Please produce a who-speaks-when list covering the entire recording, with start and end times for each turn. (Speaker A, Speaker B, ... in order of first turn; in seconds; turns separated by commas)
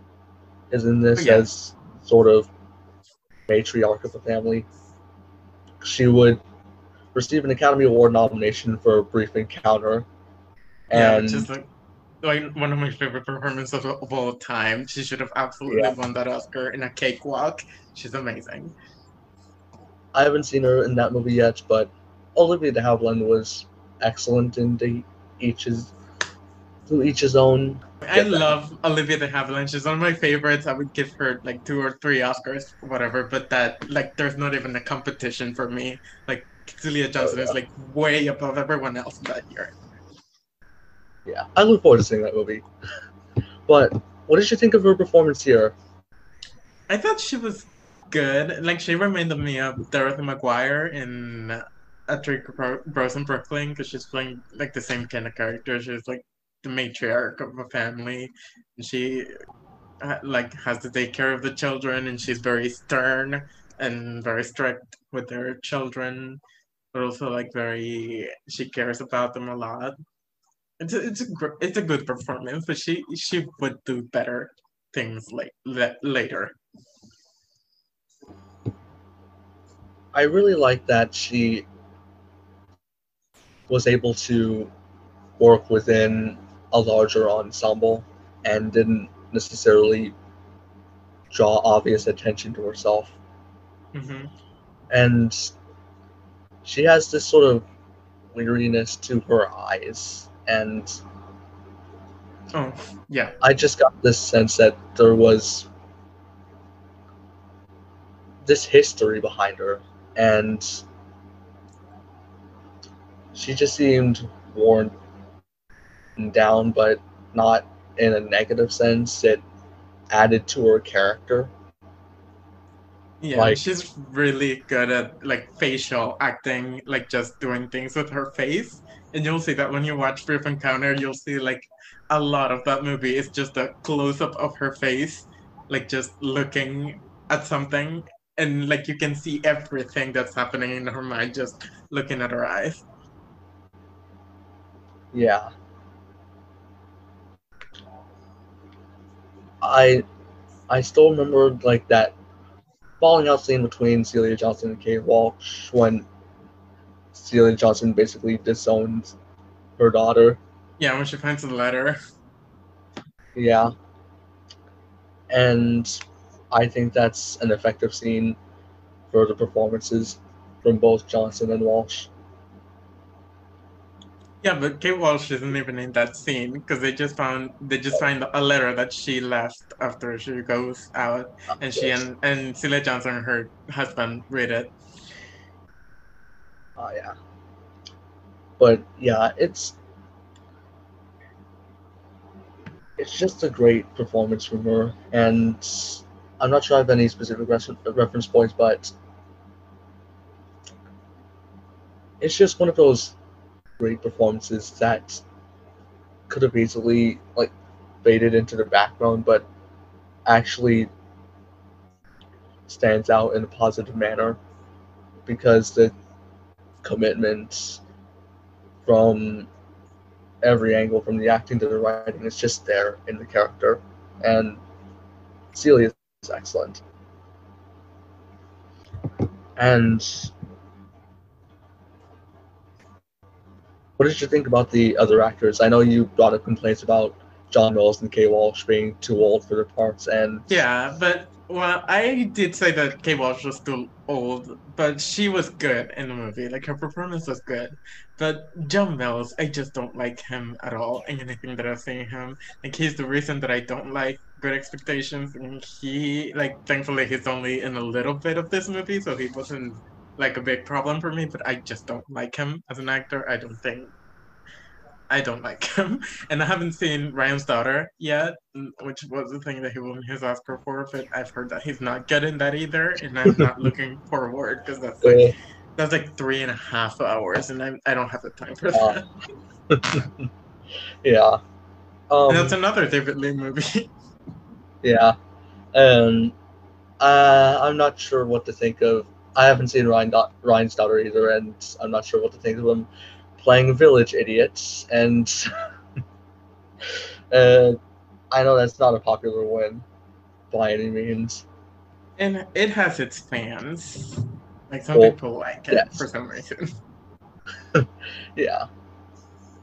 Speaker A: 0.7-2.5, Speaker B: 1.2-1.5, Speaker A: 3.5-4.7, Speaker A: 5.8-6.4, Speaker A: 7.1-10.1, Speaker A: 10.9-11.5, Speaker B: 10.9-11.7, Speaker B: 12.2-18.7, Speaker A: 15.7-15.9, Speaker A: 20.1-25.9, Speaker A: 26.9-28.6, Speaker B: 28.0-39.7, Speaker A: 37.2-37.6, Speaker A: 41.3-42.6, Speaker A: 43.7-45.8, Speaker B: 46.9-59.3, Speaker B: 60.0-66.4, Speaker B: 66.9-70.0, Speaker B: 70.8-76.6, Speaker A: 80.1-81.7, Speaker A: 83.7-84.7, Speaker A: 85.4-90.2, Speaker A: 91.3-93.2, Speaker B: 93.9-94.3, Speaker A: 94.9-95.5, Speaker A: 96.6-97.7, Speaker A: 98.3-101.0, Speaker B: 102.5-103.4, Speaker A: 103.4-105.7, Speaker A: 108.4-110.8, Speaker A: 113.3-114.9, Speaker A: 116.2-119.4, Speaker A: 120.1-121.5, Speaker B: 123.2-142.8, Speaker A: 123.3-123.6, Speaker A: 145.1-145.5, Speaker A: 149.6-150.1, Speaker A: 150.7-152.2, Speaker A: 153.0-156.1, Speaker A: 157.1-159.2, Speaker A: 159.8-160.4, Speaker B: 160.8-162.0, Speaker A: 163.3-163.7, Speaker A: 165.3-168.4, Speaker A: 169.1-172.1, Speaker B: 174.4-184.7, Speaker A: 181.7-182.0, Speaker A: 186.8-187.2, Speaker A: 188.6-189.8, Speaker A: 193.0-198.9, Speaker A: 202.2-203.2, Speaker A: 203.8-205.2, Speaker A: 206.3-209.5, Speaker A: 210.3-210.9, Speaker A: 212.7-214.4, Speaker A: 215.3-215.9, Speaker A: 216.8-217.8, Speaker A: 218.8-219.5, Speaker A: 220.4-224.6, Speaker A: 225.5-226.8, Speaker A: 229.6-230.3, Speaker A: 234.0-240.5, Speaker B: 240.5-263.9, Speaker B: 265.1-279.1, Speaker A: 275.0-275.4, Speaker A: 278.7-279.0, Speaker A: 279.7-280.3, Speaker A: 281.0-281.4, Speaker A: 282.1-282.6, Speaker B: 282.3-283.9, Speaker A: 284.8-285.2, Speaker A: 285.7-286.4, Speaker A: 287.0-295.5, Speaker A: 297.3-297.8, Speaker A: 298.3-299.9, Speaker A: 300.5-301.4, Speaker B: 302.2-306.7, Speaker A: 305.7-306.1, Speaker A: 307.7-308.7